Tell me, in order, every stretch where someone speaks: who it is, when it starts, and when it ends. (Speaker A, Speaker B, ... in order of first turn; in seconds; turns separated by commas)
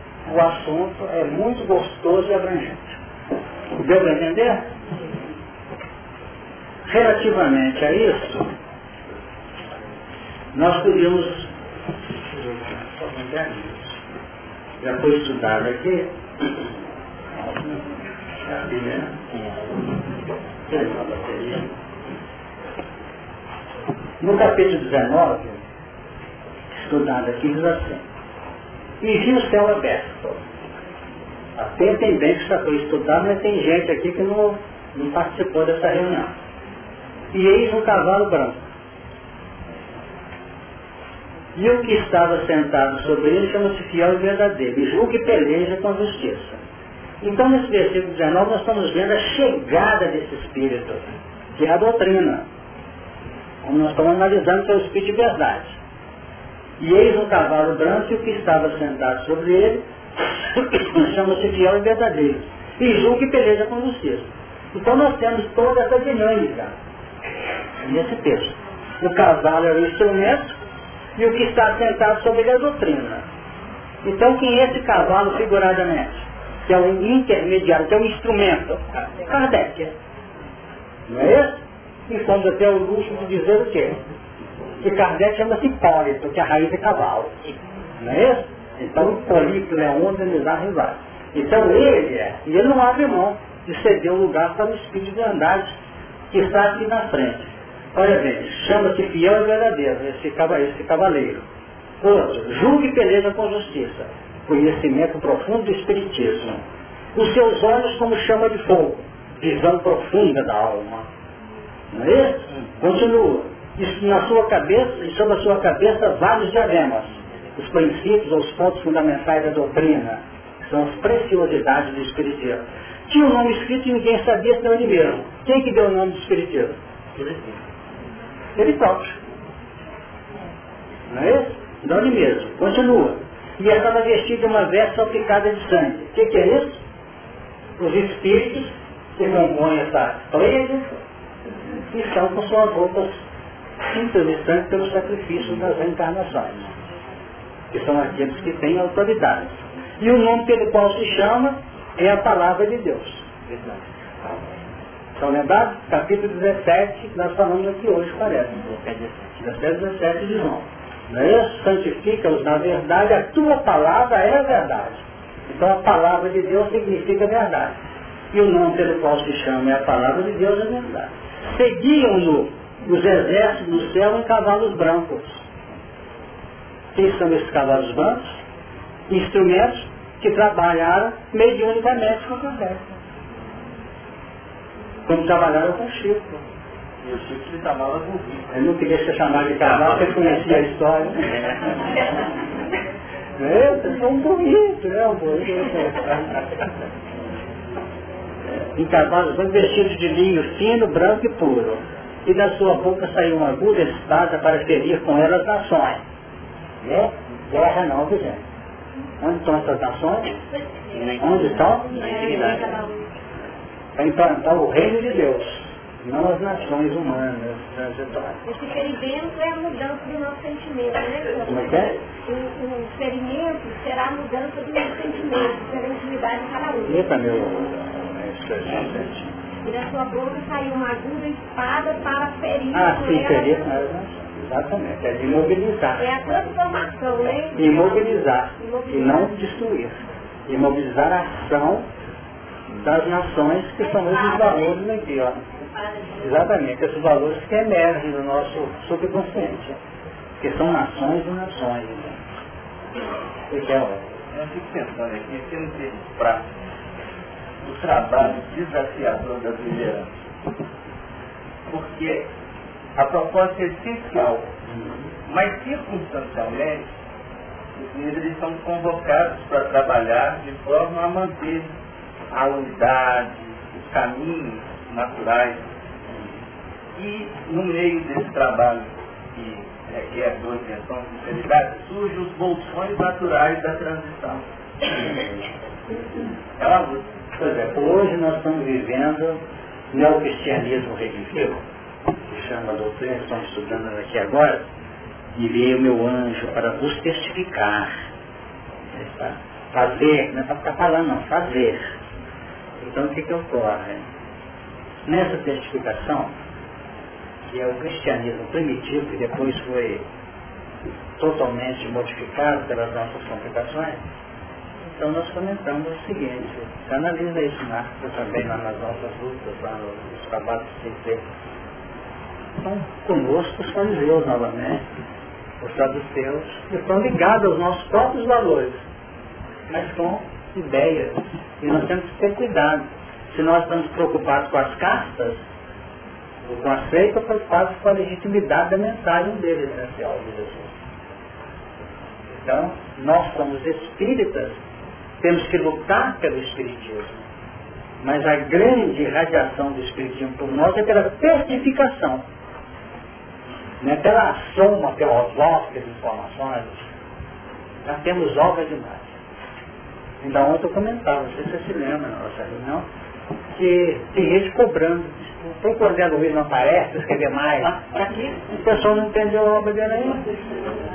Speaker A: 0.2-3.0, Speaker A: 3.8-4.7, Speaker A: 6.8-8.5, Speaker A: 10.5-11.5, Speaker A: 12.3-13.9, Speaker A: 14.8-16.5, Speaker A: 17.3-17.9, Speaker A: 18.4-19.3, Speaker A: 20.7-21.7, Speaker A: 24.2-25.6, Speaker A: 26.7-28.0, Speaker A: 29.0-30.4, Speaker A: 31.6-36.3, Speaker A: 37.3-38.6, Speaker A: 41.5-46.6, Speaker A: 47.2-52.5, Speaker A: 53.6-55.8, Speaker A: 56.8-59.8, Speaker A: 60.4-66.7, Speaker A: 67.8-70.6, Speaker A: 71.2-73.3, Speaker A: 74.0-79.9, Speaker A: 81.1-84.0, Speaker A: 84.8-87.4, Speaker A: 88.0-95.8, Speaker A: 96.3-101.5, Speaker A: 102.0-106.6, Speaker A: 107.1-111.1, Speaker A: 111.9-126.8, Speaker B: 127.2-127.5, Speaker A: 128.6-129.2, Speaker A: 131.1-136.8, Speaker A: 137.8-141.0, Speaker A: 141.9-143.2, Speaker A: 143.9-146.7, Speaker A: 147.7-153.3, Speaker B: 153.5-153.8, Speaker A: 155.2-158.8, Speaker B: 158.8-159.1, Speaker A: 159.4-167.8, Speaker A: 168.3-175.5, Speaker A: 176.9-178.4, Speaker A: 179.1-182.8, Speaker A: 185.1-186.4, Speaker B: 187.0-188.5, Speaker A: 188.5-191.8, Speaker B: 189.6-190.1, Speaker A: 193.3-196.4, Speaker A: 198.5-206.0, Speaker A: 206.8-208.4, Speaker A: 209.2-210.3, Speaker C: 210.5-213.1, Speaker A: 211.2-212.6, Speaker A: 214.0-218.4, Speaker C: 218.4-227.1, Speaker A: 221.5-221.9, Speaker A: 226.8-229.3, Speaker C: 229.6-233.7, Speaker A: 232.7-236.4, Speaker C: 236.0-239.3, Speaker A: 237.6-241.9, Speaker A: 242.7-245.4, Speaker C: 243.8-244.7, Speaker C: 245.6-246.5, Speaker A: 246.2-249.8, Speaker A: 250.4-252.2, Speaker A: 253.5-254.1, Speaker B: 254.3-256.4, Speaker B: 257.6-260.1, Speaker B: 261.7-262.3, Speaker B: 262.9-264.6, Speaker B: 265.2-266.9, Speaker B: 267.7-271.7, Speaker B: 272.3-275.6, Speaker B: 276.9-284.4, Speaker A: 286.6-291.6, Speaker A: 292.3-294.7, Speaker A: 295.3-298.1, Speaker A: 298.9-302.0, Speaker A: 302.8-304.1, Speaker A: 305.1-306.3, Speaker A: 307.5-310.1, Speaker A: 311.2-314.0, Speaker A: 314.9-321.2, Speaker A: 322.6-324.9, Speaker A: 325.6-328.8, Speaker A: 329.7-335.4, Speaker A: 336.4-340.7, Speaker A: 342.4-344.6, Speaker A: 345.2-347.2, Speaker A: 348.0-352.2, Speaker A: 353.8-356.9, Speaker A: 357.8-359.2, Speaker A: 360.2-362.9, Speaker A: 363.5-367.9, Speaker A: 368.5-370.3